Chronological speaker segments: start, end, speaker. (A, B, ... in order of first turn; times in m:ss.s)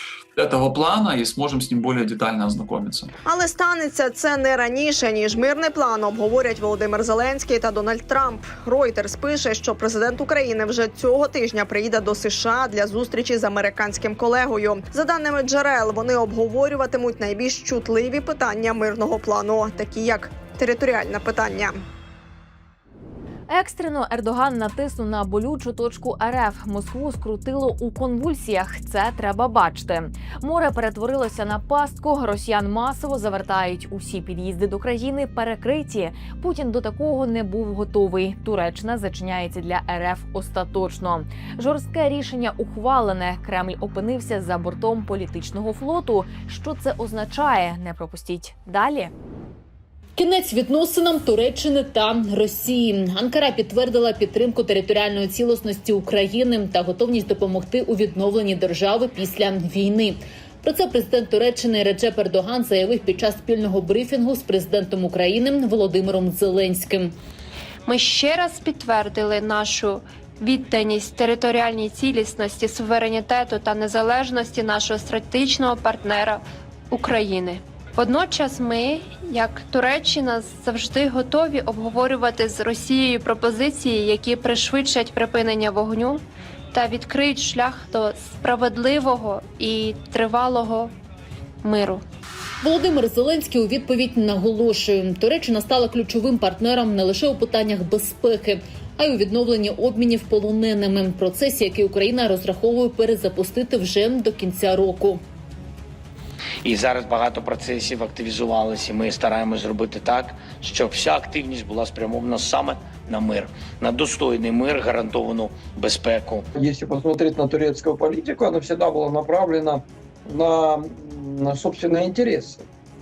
0:00.4-0:03.1 A
0:03.3-0:21.8 B
0:23.5-0:49.1 C
0:50.2-1:07.2 D
1:07.9-1:30.9 E
1:31.6-1:32.0 E
1:32.6-1:45.2 D
1:46.6-1:56.5 F
1:56.6-2:02.6 G